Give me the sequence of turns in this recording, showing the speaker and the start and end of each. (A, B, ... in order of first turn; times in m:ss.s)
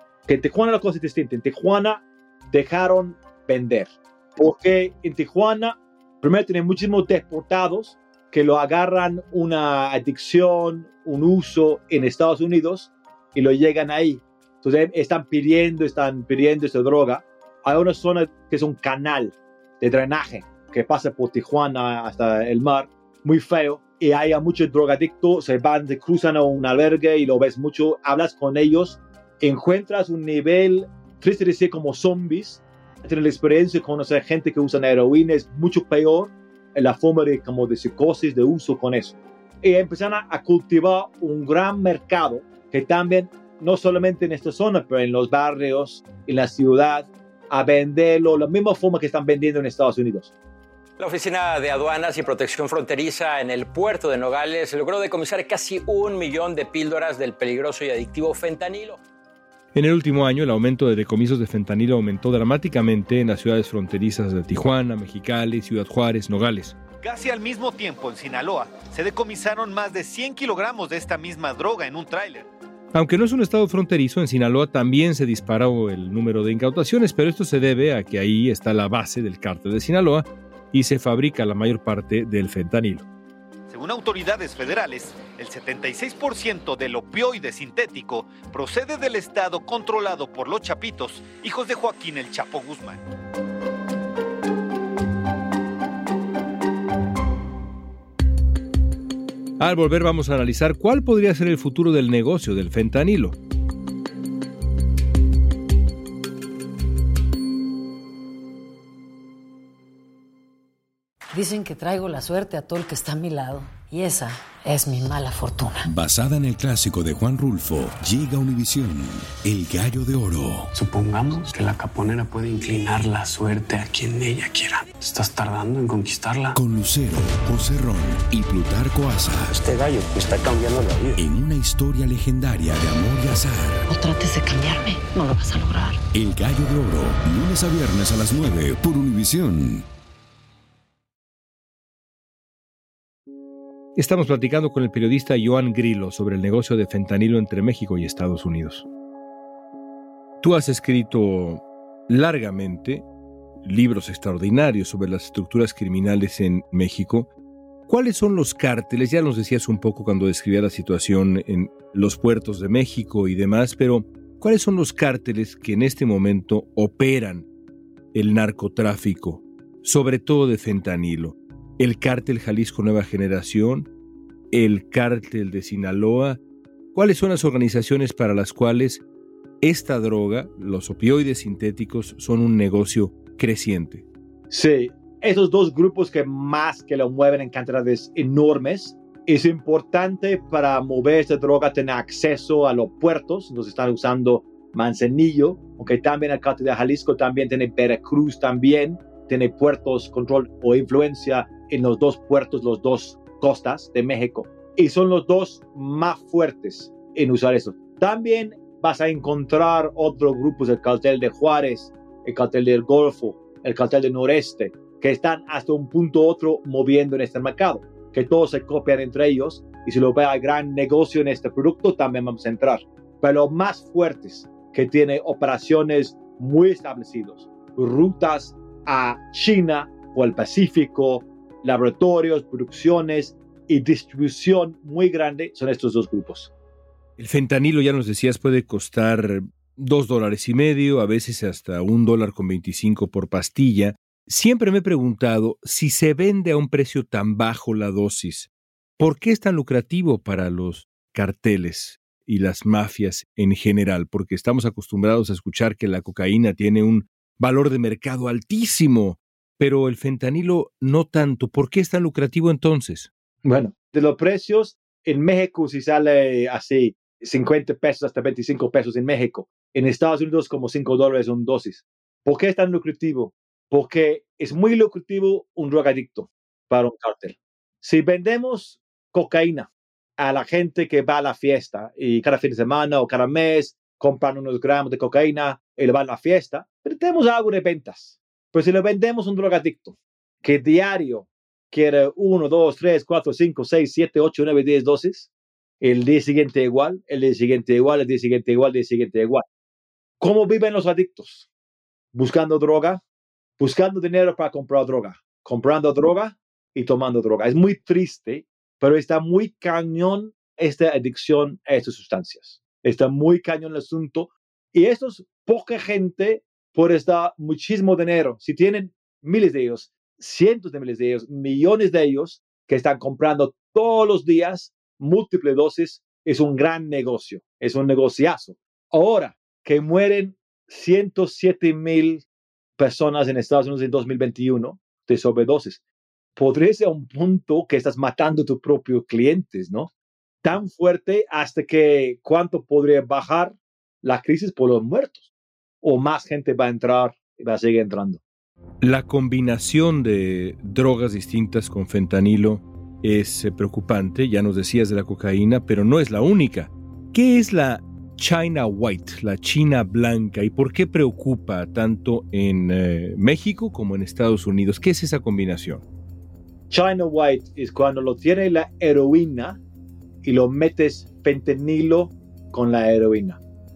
0:00.3-0:50.3 A
0:51.0-0:59.0 B
0:59.7-1:06.7 C
1:07.0-1:12.5 D
1:12.9-1:23.0 C
1:23.7-1:33.0 D
1:39.6-1:43.4 C
1:51.3-1:55.9 E
1:55.8-2:00.7 F
2:00.7-2:06.6 G
2:06.5-2:09.6 F
2:09.5-2:11.2 G
2:11.2-2:13.8 F
2:13.9-2:16.0 E
2:16.1-2:19.8 F
2:24.0-2:28.8 C
2:30.4-2:33.0 C
2:33.6-2:37.3 C
2:37.9-2:47.4 C
2:48.1-2:53.9 C
2:54.5-2:56.4 C
2:56.9-2:59.0 C
2:59.6-3:04.0 C
3:04.5-3:56.5 A
3:57.2-4:23.1 C
4:23.4-4:55.3 A
4:55.8-4:59.4 A
5:00.2-5:01.5 A
5:02.1-5:03.0 A
5:03.6-5:32.2 A
5:32.8-5:35.8 A
5:36.4-5:39.9 A
5:40.4-5:45.3 A
5:45.8-5:48.2 A
5:48.8-6:05.8 C
6:06.7-6:09.6 A
6:10.2-6:13.4 A